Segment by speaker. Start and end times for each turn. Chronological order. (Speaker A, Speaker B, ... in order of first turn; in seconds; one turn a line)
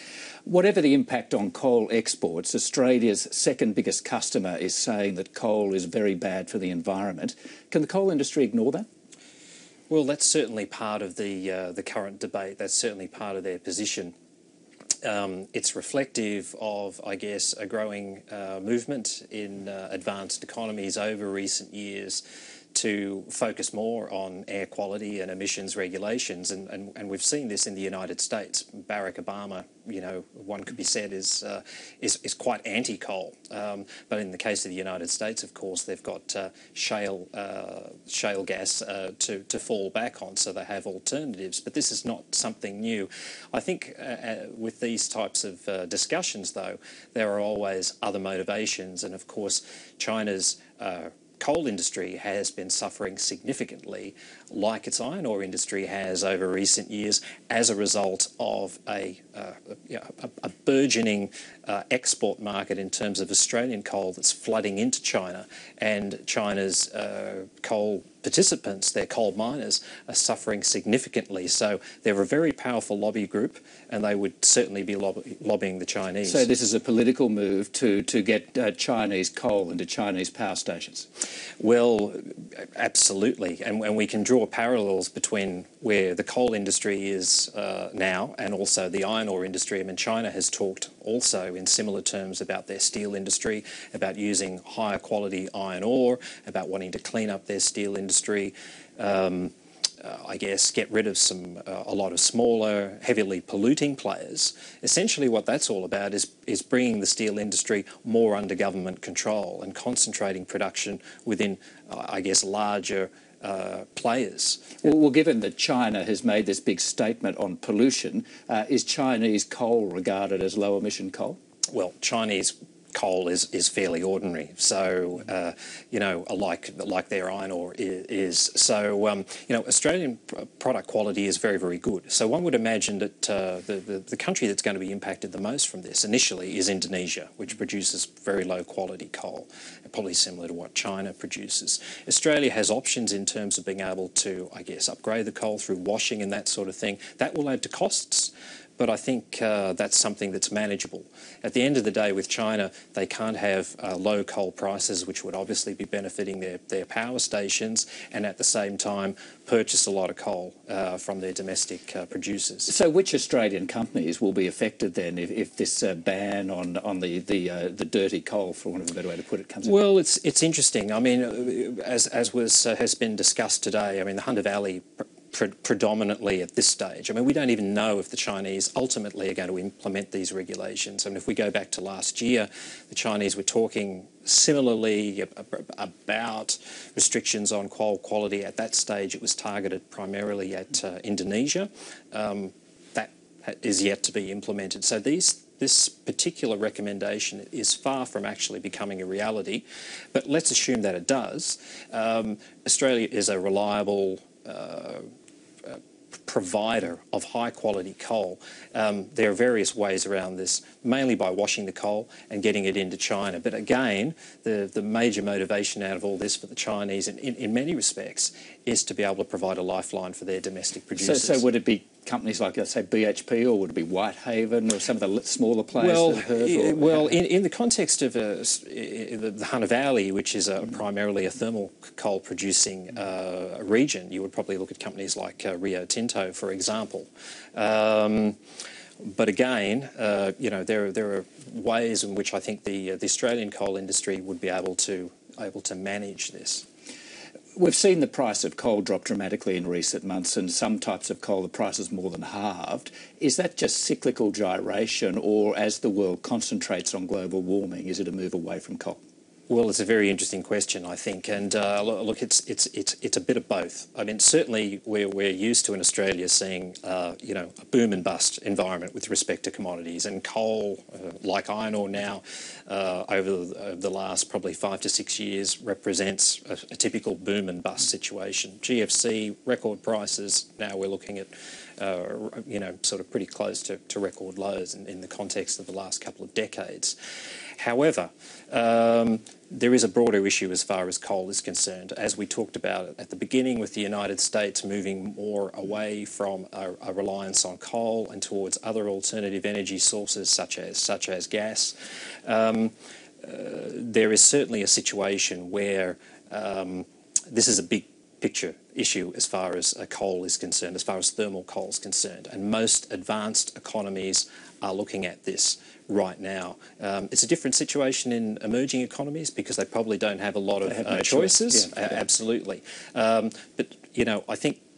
Speaker A: 0.5-8.8
Speaker B: 9.9-14.1
Speaker B: 15.0-76.5
Speaker A: 76.2-81.1
Speaker B: 81.6-114.8
Speaker A: 114.8-121.4
Speaker B: 121.7-162.7
Speaker A: 162.7-169.8
Speaker B: 169.6-205.0
Speaker B: 205.6-221.4
Speaker A: 221.0-227.2
Speaker B: 225.8-238.4
Speaker B: 239.0-246.7
Speaker A: 247.6-259.0
Speaker B: 259.5-286.9
Speaker B: 287.6-301.7
Speaker B: 302.2-324.6
Speaker A: 320.6-321.8